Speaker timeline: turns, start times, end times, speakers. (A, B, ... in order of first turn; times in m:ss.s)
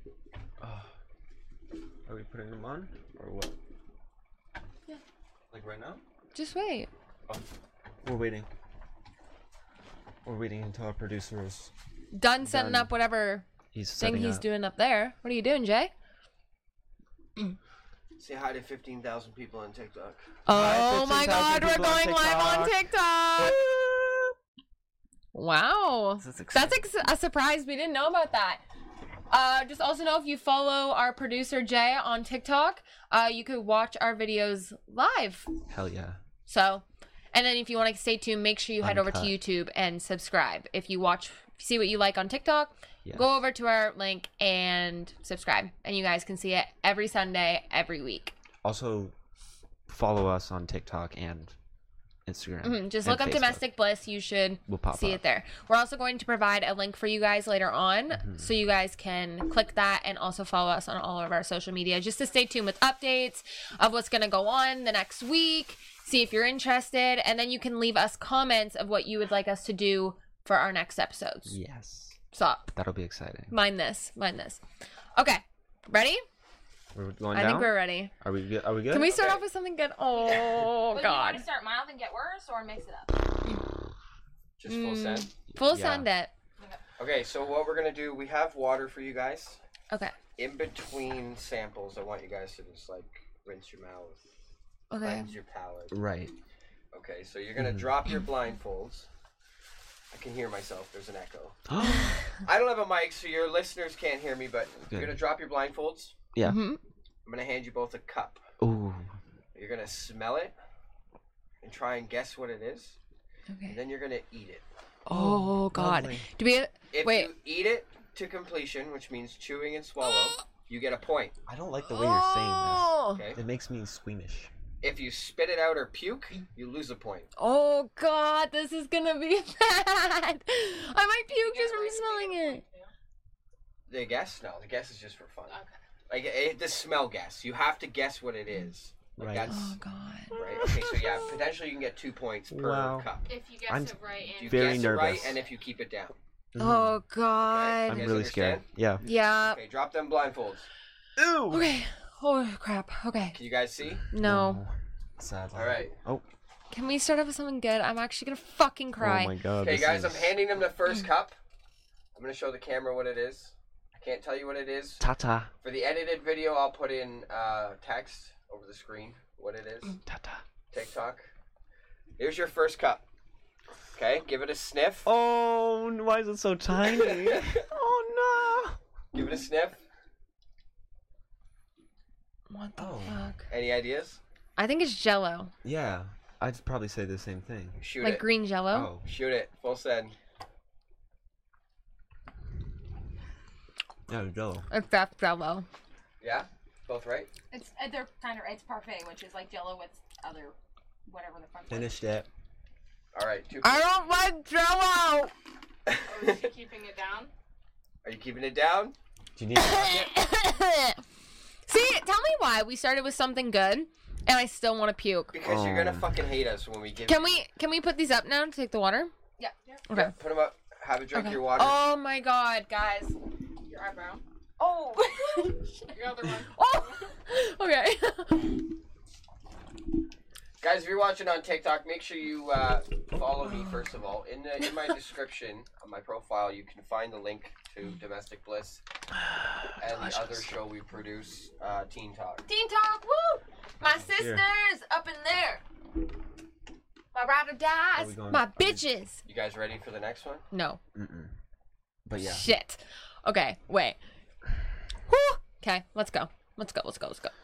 0:00.6-0:00.9 A
0:02.1-0:03.5 A
0:05.5-0:06.0 A
0:06.3-0:06.9 B
0:08.0-0:08.5 A
0:10.2-0:11.7 A
0:12.1-0:13.5 B
0:12.4-0:12.9 A
0:13.7-0:14.5 A
0:14.0-0:15.9 B
0:18.2-0:20.2 C
0:20.5-0:23.6 B
0:20.5-0:22.8 A
0:23.4-0:24.3 A
0:25.3-0:28.6 B
0:26.2-0:26.8 A
0:29.3-0:35.5 B
0:35.7-0:36.2 A
0:36.5-0:48.3 B
0:38.8-0:39.4 A
0:48.6-0:49.1 A
0:49.9-0:51.5 A
0:52.3-0:53.6 A
0:52.6-1:11.6 B
0:54.7-0:55.2 A
0:58.1-0:58.5 A
1:11.5-1:12.2 A
1:12.3-1:12.7 B
1:12.7-1:13.5 A
1:13.5-1:14.6 B
1:15.2-1:16.2 B
1:16.9-1:19.1 A
1:17.3-1:18.1 B
1:18.9-1:21.4 B
1:19.0-1:19.4 C
1:20.9-1:23.2 D
1:24.6-1:25.3 C
1:24.6-1:26.3 B
1:25.6-1:26.1 A
1:27.0-1:29.6 C
1:30.4-1:34.2 C
1:34.9-1:35.3 B
1:35.0-1:36.0 C
1:35.9-1:36.3 A
1:36.9-1:39.1 C
1:37.6-1:38.0 A
1:40.1-1:41.6 C
1:41.7-1:42.3 A
1:42.4-1:46.2 C
1:44.9-1:45.2 A
1:46.3-1:46.6 A
1:46.4-1:46.8 B
1:47.2-1:48.4 C
1:48.6-1:49.1 A
1:49.6-1:50.6 C
1:51.6-1:53.0 C
1:53.5-1:53.8 B
1:53.7-1:54.6 C
1:55.1-1:57.3 B
1:55.1-1:56.3 A
1:56.9-2:01.4 C
2:00.0-2:00.4 B
2:01.5-2:04.5 A
2:01.8-2:03.3 B
2:03.1-2:03.4 C
2:04.8-2:07.3 C
2:07.4-2:12.6 B
2:11.3-2:12.9 E
2:13.9-2:19.8 C
2:19.2-2:19.5 A
2:19.5-2:20.8 B
2:20.3-2:23.3 C
2:20.4-2:21.3 A
2:22.5-2:23.1 A
2:23.3-2:25.4 E
2:23.7-2:25.4 A
2:24.4-2:26.2 C
2:26.5-2:27.0 A
2:26.6-2:28.2 B
2:27.4-2:28.6 C
2:27.9-2:29.0 A
2:29.0-2:29.6 B
2:29.4-2:30.7 C
2:31.2-2:31.7 A
2:31.5-2:33.4 B
2:33.3-2:34.0 C
2:34.0-2:36.2 A
2:34.1-2:34.6 B
2:35.6-2:36.0 C
2:36.7-2:39.4 B
2:39.0-2:40.4 A
2:39.6-2:41.4 C
2:42.1-2:45.0 C
2:45.0-2:45.5 A
2:45.6-2:49.9 C
2:50.0-2:50.4 A
2:50.7-2:51.3 C
2:52.2-2:53.0 C
2:54.0-2:55.1 C
2:55.0-2:58.8 A
2:56.9-2:57.6 C
2:59.1-2:59.8 C
3:02.5-3:03.5 B
3:02.8-3:03.2 A
3:03.5-3:04.2 C
3:04.6-3:05.5 B
3:05.6-3:07.8 A
3:07.8-3:08.3 C
3:08.0-3:08.9 B
3:08.7-3:09.1 A
3:09.0-3:10.2 C
3:14.1-3:14.7 A
3:14.7-3:15.7 B
3:16.2-3:17.3 C
3:17.5-3:22.0 D
3:21.7-3:22.3 A
3:23.1-3:24.0 C
3:23.6-3:25.3 B
3:25.9-3:26.4 C
3:26.0-3:27.3 E
3:28.0-3:29.0 C
3:29.4-3:30.1 A
3:29.6-3:31.0 B
3:31.7-3:35.3 B
3:35.3-3:37.4 C
3:35.4-3:36.2 A
3:37.1-3:39.1 B
3:39.9-3:40.2 B
3:39.9-3:41.8 C
3:41.1-3:43.2 B
3:43.7-3:44.2 E
3:44.6-3:45.7 B
3:45.9-3:47.1 E
3:46.5-3:48.6 B
3:50.6-3:58.8 C
3:53.1-3:53.5 A
3:59.3-4:00.6 A
3:59.8-4:02.4 C
4:02.5-4:05.6 B
4:04.0-4:04.4 A
4:07.1-4:09.2 B
4:08.0-4:08.9 A
4:09.3-4:10.5 C
4:10.5-4:10.8 B
4:11.0-4:11.3 A
4:12.0-4:12.5 A
4:12.2-4:14.0 B
4:15.1-4:17.3 B